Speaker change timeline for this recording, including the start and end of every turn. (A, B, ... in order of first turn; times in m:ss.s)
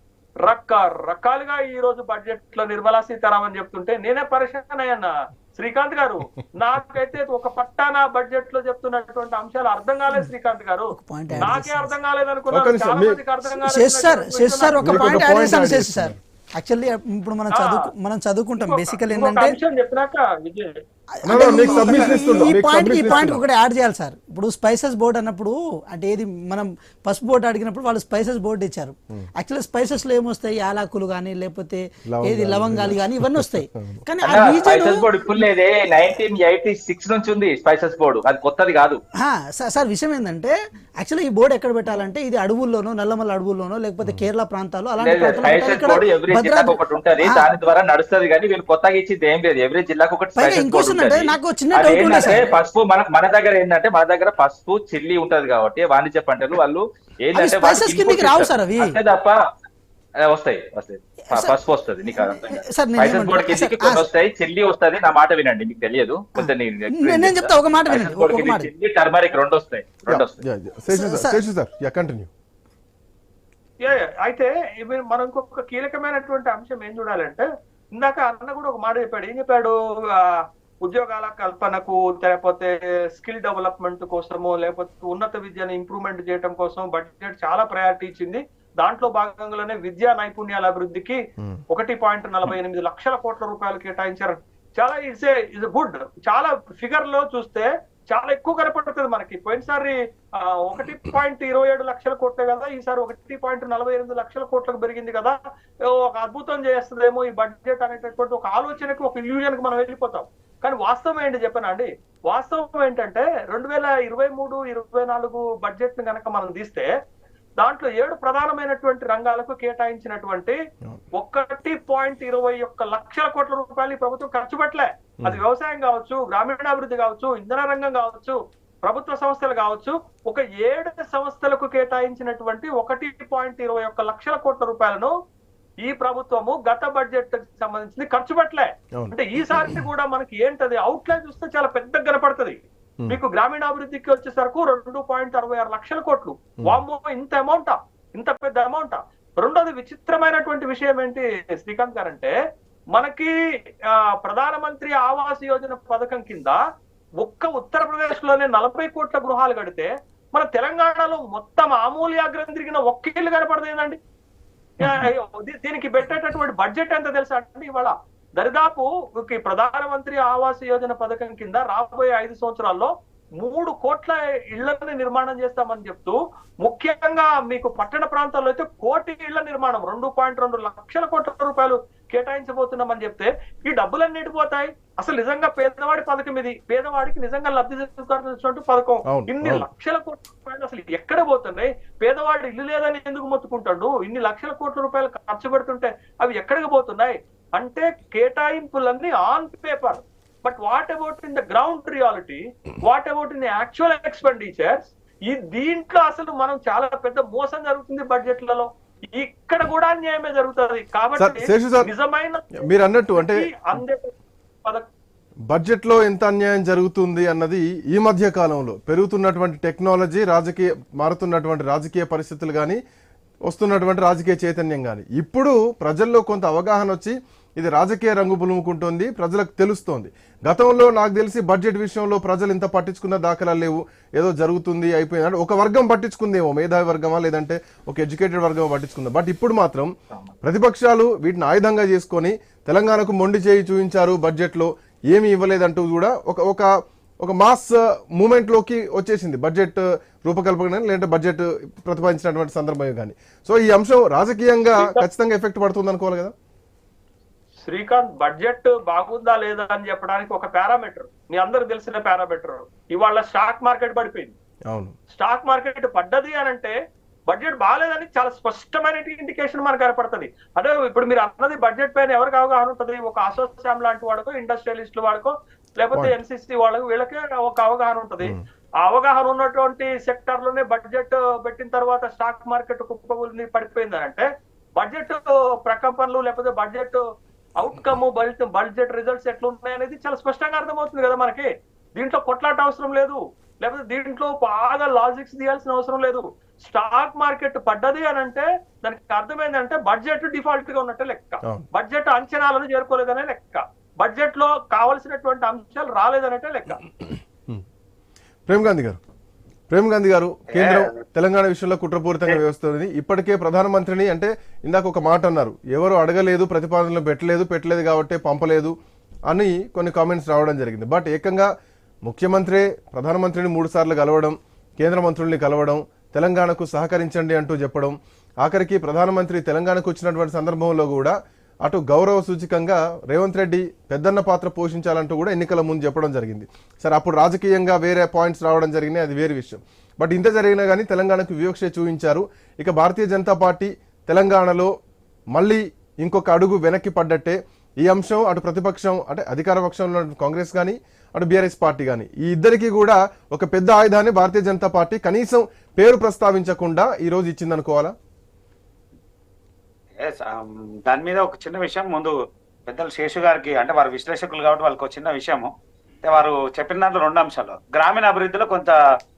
0:00.4-0:15.3 A
0:10.9-0:11.9 B
0:12.5-0:13.2 C
0:13.5-0:19.6 B
0:14.8-0:16.2 C
0:17.6-0:17.8 A
0:18.6-0:20.7 A
0:21.2-0:35.1 B
0:21.3-0:23.4 C
0:21.3-0:22.5 A
0:32.1-0:34.0 C
0:34.2-0:39.0 D
0:39.2-0:47.5 B
0:45.0-0:59.4 D
0:50.4-0:52.5 B
0:57.3-0:59.0 B
1:00.2-1:10.4 D
1:01.3-1:01.6 B
1:02.1-1:04.0 B
1:06.4-1:08.7 B
1:10.1-1:12.3 C
1:10.9-1:11.4 B
1:13.8-1:31.2 A
1:31.7-1:45.4 A
1:45.9-1:56.9 A
1:57.6-2:00.6 A
2:01.2-2:15.1 A
2:15.8-2:32.4 A
2:19.0-2:19.8 C
2:32.9-2:33.3 A
2:33.9-2:36.6 A
2:37.2-2:44.0 A
2:44.8-3:32.5 A
3:09.1-3:09.7 C
3:31.2-3:31.9 C
3:32.6-3:33.5 C
3:33.1-3:34.1 A
3:35.5-3:42.8 C
3:43.5-3:59.9 C
4:00.4-4:06.7 C
4:07.2-4:16.3 C
4:14.8-4:15.0 A
4:17.6-4:24.4 A
4:25.1-4:26.8 A
4:27.3-4:44.3 A
4:44.8-4:47.0 A
4:47.6-5:06.8 A
5:08.5-5:09.0 C
5:09.7-5:18.7 C
5:10.5-5:11.0 E
5:19.3-5:21.5 C
5:22.1-5:44.7 C
5:45.3-5:57.9 C
6:00.0-6:02.1 E
6:02.7-6:05.5 E
6:06.0-6:08.8 E